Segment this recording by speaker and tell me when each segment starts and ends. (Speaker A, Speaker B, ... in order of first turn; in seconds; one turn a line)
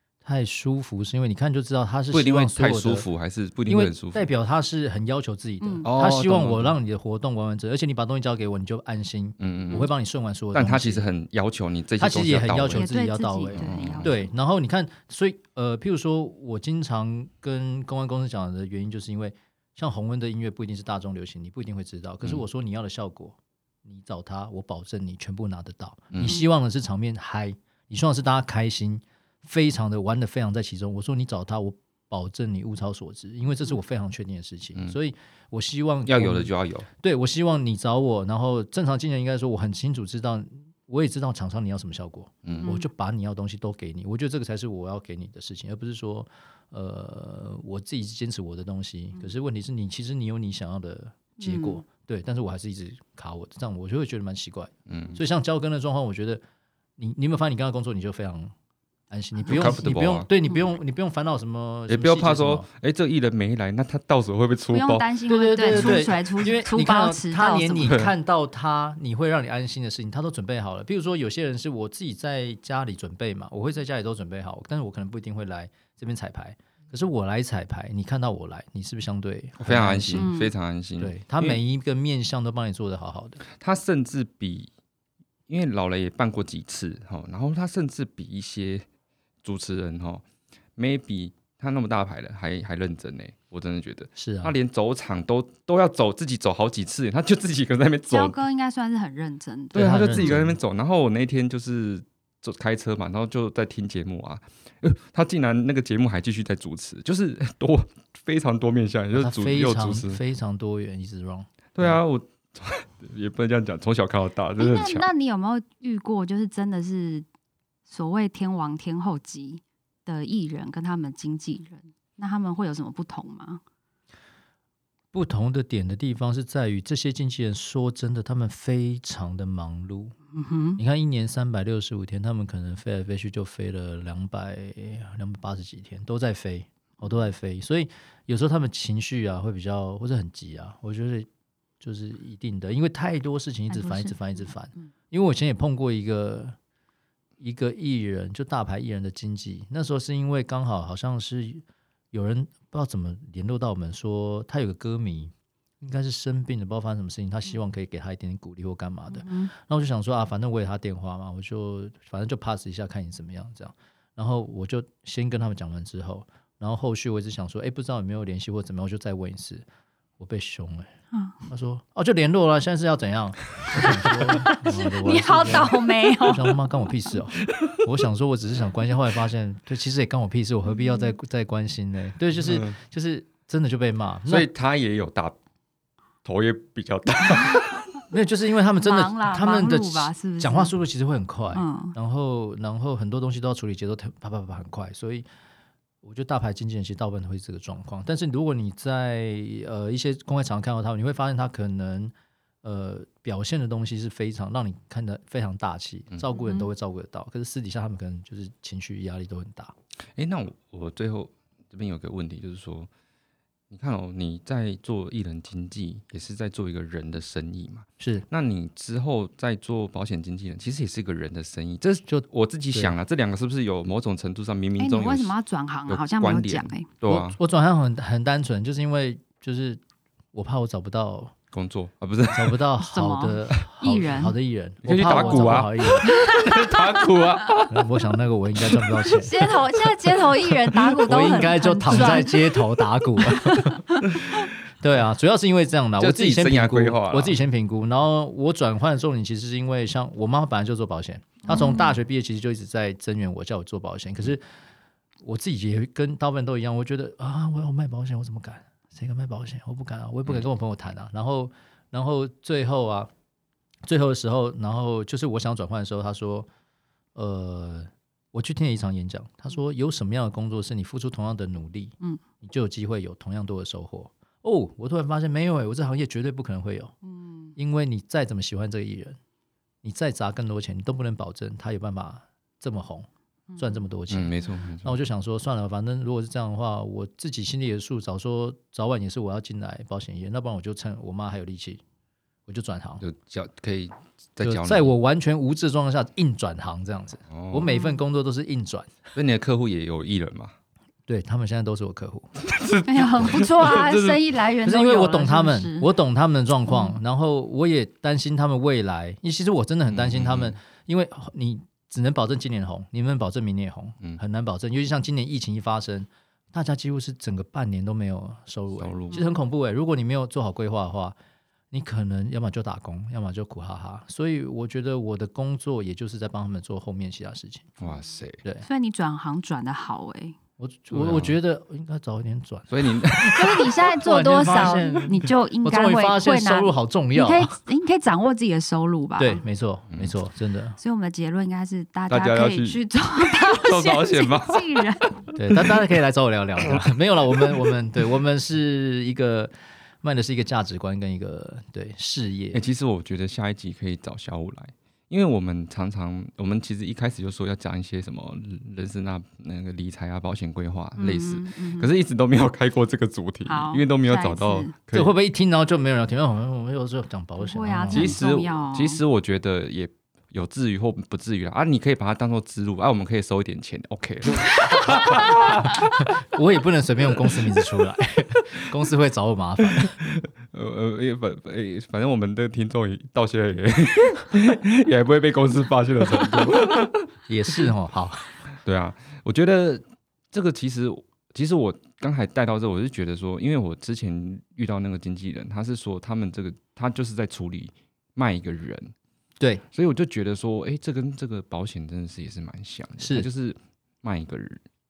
Speaker A: 0.2-3.1
Speaker B: 2.1-4.3
Speaker A: 3.7-11.1
Speaker B: 5.8-6.8
Speaker B: 9.4-9.9
Speaker B: 10.5-12.9
Speaker A: 12.0-56.4
Speaker C: 12.7-14.3
Speaker B: 13.5-14.1
Speaker B: 26.1-26.4
Speaker B: 36.0-36.9
Speaker B: 42.4-42.7
Speaker C: 42.6-42.9
Speaker C: 51.4-51.8
Speaker B: 54.9-55.2
Speaker A: 57.0-58.5
Speaker A: 59.1-62.7
Speaker B: 59.5-60.3
Speaker B: 61.9-65.1
Speaker C: 64.7-68.0
Speaker A: 65.3-80.3
Speaker B: 65.7-66.1
Speaker B: 67.8-68.1
Speaker B: 79.6-81.6
Speaker C: 80.1-80.5
Speaker A: 81.0-83.4
Speaker B: 83.5-84.7
Speaker B: 85.5-88.8
Speaker B: 89.4-90.2
Speaker B: 90.8-98.4
Speaker A: 94.2-94.5
Speaker C: 98.1-100.4
Speaker A: 99.7-100.6
Speaker B: 99.7-110.2
Speaker A: 109.1-112.0
Speaker B: 111.8-115.1
Speaker C: 114.6-117.3
Speaker C: 117.9-123.6
Speaker A: 125.1-130.1
Speaker C: 130.3-130.8
Speaker A: 130.8-141.3
Speaker A: 141.8-146.6
Speaker C: 143.7-144.9
Speaker A: 147.4-169.7
Speaker C: 159.1-159.5
Speaker A: 170.2-170.9
Speaker A: 171.5-184.5
Speaker B: 173.8-174.1
Speaker C: 174.4-176.6
Speaker B: 182.4-182.8
Speaker B: 184.3-185.4
Speaker B: 186.2-187.9
Speaker A: 188.1-195.3
Speaker C: 188.8-190.7
Speaker C: 191.6-191.9
Speaker A: 196.0-209.8
Speaker C: 206.3-206.7
Speaker B: 210.2-212.9
Speaker B: 213.7-225.3
Speaker A: 218.0-218.3
Speaker A: 222.1-222.9
Speaker C: 224.8-226.9
Speaker B: 225.9-227.4
Speaker A: 227.1-229.8
Speaker A: 230.3-231.3
Speaker B: 231.5-232.6
Speaker A: 232.3-236.1
Speaker C: 232.8-234.3
Speaker B: 234.8-237.8
Speaker C: 235.0-236.9
Speaker A: 237.7-239.5
Speaker C: 239.1-244.0
Speaker A: 241.0-243.9
Speaker A: 244.8-254.4
Speaker B: 246.0-247.4
Speaker C: 251.5-251.9
Speaker A: 255.2-263.1
Speaker A: 263.9-266.5
Speaker A: 267.1-276.9
Speaker C: 277.1-277.5
Speaker A: 277.6-279.2
Speaker A: 279.8-291.8
Speaker C: 283.5-283.8
Speaker B: 284.1-285.0
Speaker A: 292.5-293.0
Speaker B: 293.0-294.9
Speaker A: 294.4-299.0
Speaker B: 297.3-297.7
Speaker C: 297.7-298.0
Speaker B: 299.1-300.5
Speaker A: 301.1-302.3
Speaker B: 302.4-304.2
Speaker C: 302.9-305.9
Speaker A: 304.6-321.2
Speaker C: 306.7-307.0
Speaker B: 309.9-310.6
Speaker B: 318.8-319.2
Speaker A: 321.7-327.7
Speaker B: 327.8-328.4
Speaker C: 328.6-330.4
Speaker A: 330.6-337.5
Speaker B: 330.9-331.4
Speaker B: 332.7-333.7
Speaker C: 333.3-339.4
Speaker A: 339.2-340.8
Speaker C: 340.8-345.2
Speaker B: 342.1-345.3
Speaker A: 345.4-352.6
Speaker B: 352.5-365.2
Speaker C: 361.0-361.9
Speaker C: 363.5-364.7
Speaker A: 364.9-368.2
Speaker C: 367.4-369.0
Speaker B: 367.9-375.9
Speaker A: 375.1-375.7
Speaker A: 376.2-379.9
Speaker B: 379.8-387.1
Speaker A: 387.3-388.4
Speaker B: 388.6-398.9
Speaker B: 399.7-404.6
Speaker A: 403.0-403.3